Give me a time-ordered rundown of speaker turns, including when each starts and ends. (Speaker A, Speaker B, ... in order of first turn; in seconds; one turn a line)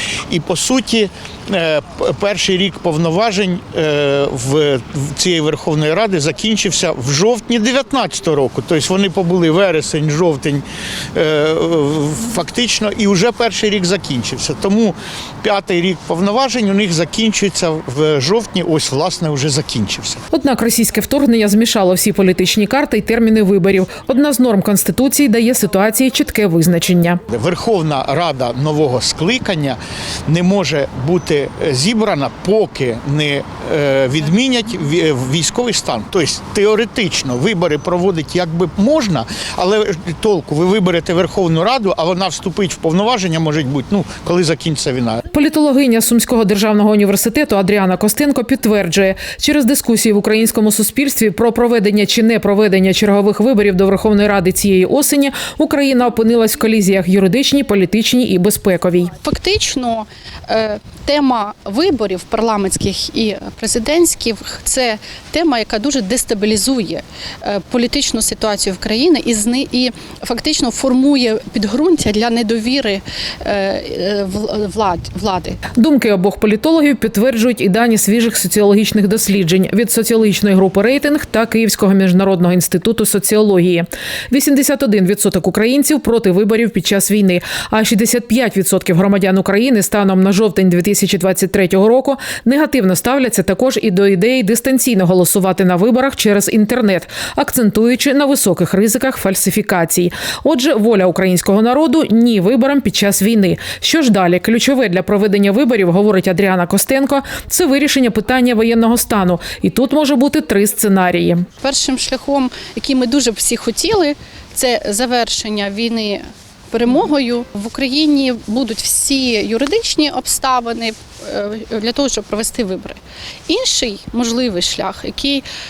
Speaker A: 0.3-20.2
Speaker B: 20.3-27.2
Speaker A: 27.3-45.2
Speaker B: 45.3-59.1
Speaker C: 59.2-75.6
Speaker B: 75.8-111.5
Speaker C: 111.6-125.4